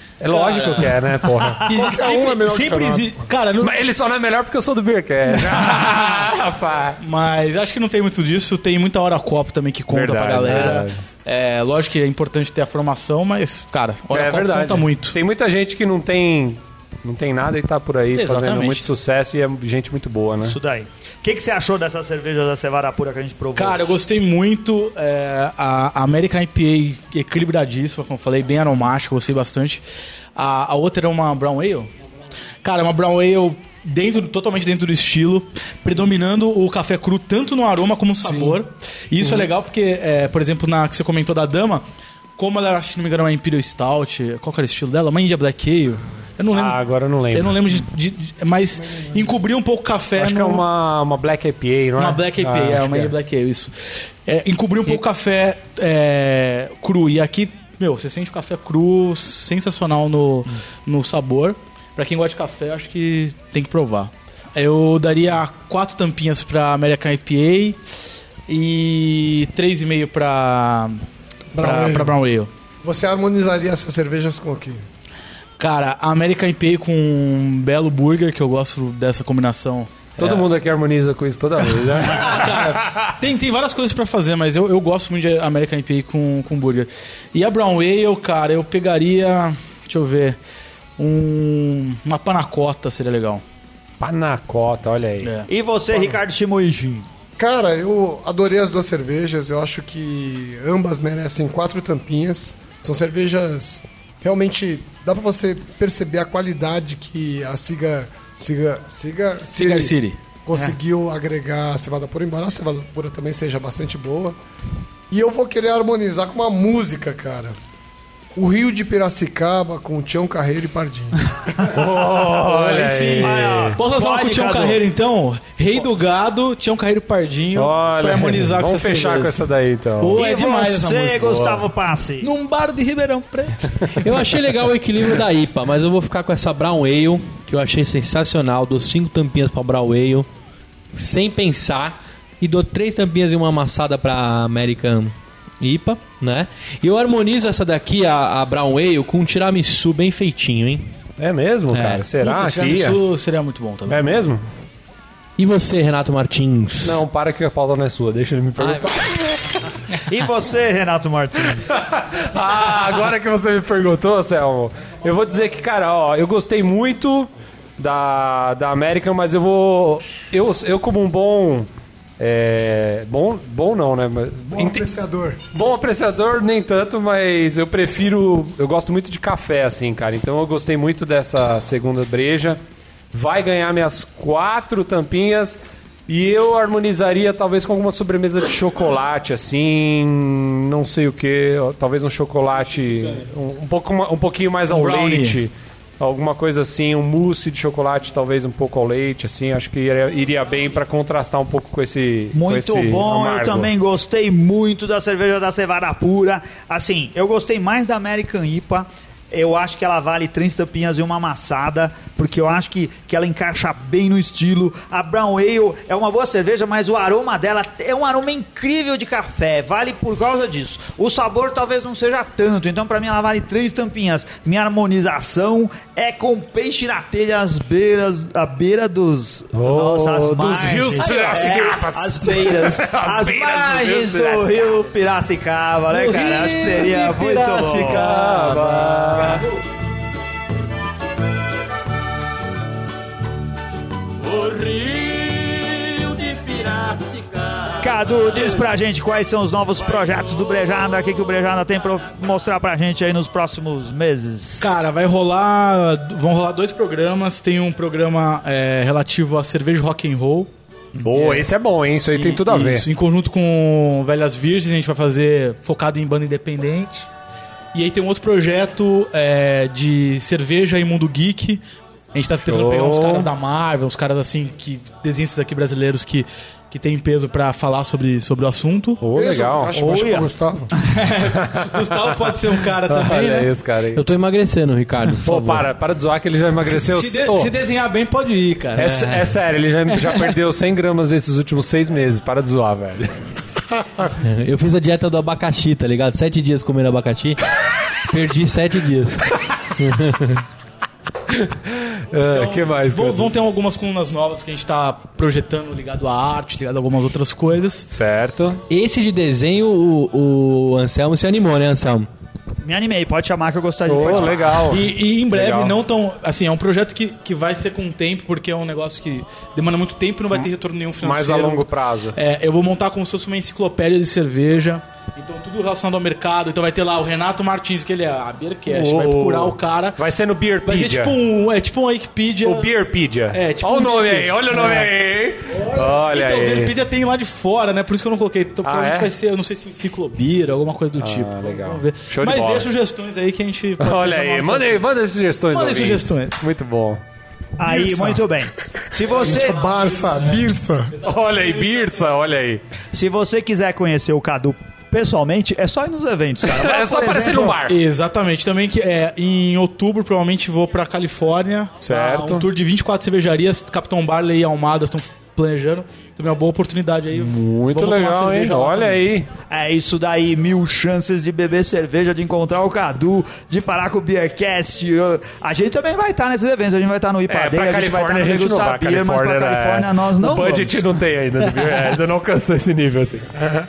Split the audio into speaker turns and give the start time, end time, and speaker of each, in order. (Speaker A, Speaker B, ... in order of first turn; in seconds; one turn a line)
Speaker A: 0.2-1.7
Speaker B: 0.3-1.1
Speaker C: 1.6-1.9
Speaker B: 1.6-3.8
Speaker D: 1.7-3.3
Speaker A: 3.6-7.0
Speaker B: 5.3-6.3
Speaker B: 7.0-15.2
Speaker A: 9.9-11.0
Speaker A: 14.1-20.6
Speaker B: 18.1-18.9
Speaker C: 20.4-24.0
Speaker B: 23.6-29.8
Speaker B: 30.4-31.9
Speaker B: 32.6-41.8
Speaker B: 42.4-46.8
Speaker A: 46.5-47.6
Speaker B: 47.3-50.6
Speaker A: 50.2-53.1
Speaker B: 52.0-67.8
Speaker B: 68.5-71.0
Speaker D: 71.5-72.2
Speaker B: 71.6-72.5
Speaker D: 72.8-74.8
Speaker B: 75.6-80.5
Speaker A: 80.2-83.1
Speaker B: 81.9-90.4
Speaker B: 91.0-93.4
Speaker A: 94.0-95.3
Speaker C: 95.5-97.1
Speaker D: 97.4-114.4
Speaker B: 109.5-110.7
Speaker D: 115.1-117.6
Speaker D: 118.3-121.5
Speaker A: 121.7-123.8
Speaker B: 122.2-129.4
Speaker C: 123.2-124.8
Speaker A: 127.5-130.2
Speaker B: 130.0-131.6
Speaker C: 130.2-132.3
Speaker B: 132.2-134.0
Speaker E: 133.9-140.3
Speaker E: 140.9-150.9
Speaker A: 151.2-153.0
Speaker B: 151.7-154.0
Speaker A: 153.9-154.4
Speaker E: 155.4-157.0
Speaker A: 156.8-159.0
Speaker E: 158.6-159.1
Speaker C: 160.1-161.7
Speaker A: 161.7-174.9
Speaker D: 174.5-175.4
Speaker A: 175.5-182.6
Speaker A: 183.1-203.7
Speaker B: 194.7-195.4
Speaker C: 202.3-238.1
Speaker A: 229.5-234.8
Speaker B: 231.0-231.7
Speaker B: 235.9-239.5
Speaker A: 237.7-239.4
Speaker F: 244.2-248.6
Speaker C: 247.8-254.8
Speaker F: 249.9-250.8
Speaker B: 254.6-260.5
Speaker A: 261.0-262.9
Speaker B: 261.1-261.5
Speaker B: 262.1-267.1
Speaker B: 267.7-271.6
Speaker B: 272.1-279.0
Speaker A: 272.4-273.3
Speaker A: 279.0-280.1
Speaker D: 279.1-280.7
Speaker C: 279.7-280.3
Speaker B: 280.8-283.5
Speaker A: 281.2-282.3
Speaker A: 282.9-284.0
Speaker E: 283.9-285.7
Speaker A: 285.2-287.5
Speaker B: 286.8-288.9
Speaker A: 288.8-293.2
Speaker E: 288.8-289.3
Speaker B: 289.9-290.3
Speaker E: 294.1-297.4
Speaker E: 298.0-300.4
Speaker A: 301.3-303.3
Speaker B: 302.3-307.9
Speaker A: 307.9-308.6
Speaker E: 308.7-312.1
Speaker C: 312.6-314.5
Speaker A: 313.9-315.8
Speaker B: 314.6-330.0
Speaker A: 321.0-322.2
Speaker A: 328.7-331.2
Speaker B: 330.6-332.8
Speaker A: 332.4-336.7
Speaker B: 333.3-334.9
Speaker B: 335.5-344.9
Speaker A: 338.6-339.1
Speaker A: 341.0-342.7
Speaker A: 343.8-347.0
Speaker B: 345.5-346.4
Speaker C: 347.6-349.7
Speaker D: 347.6-348.2
Speaker D: 348.9-350.9
Speaker A: 351.0-352.6
Speaker C: 352.9-357.6
Speaker A: 356.4-357.8
Speaker B: 357.6-369.1
Speaker A: 361.8-362.5
Speaker A: 367.1-369.3
Speaker C: 369.5-380.8
Speaker A: 377.3-383.4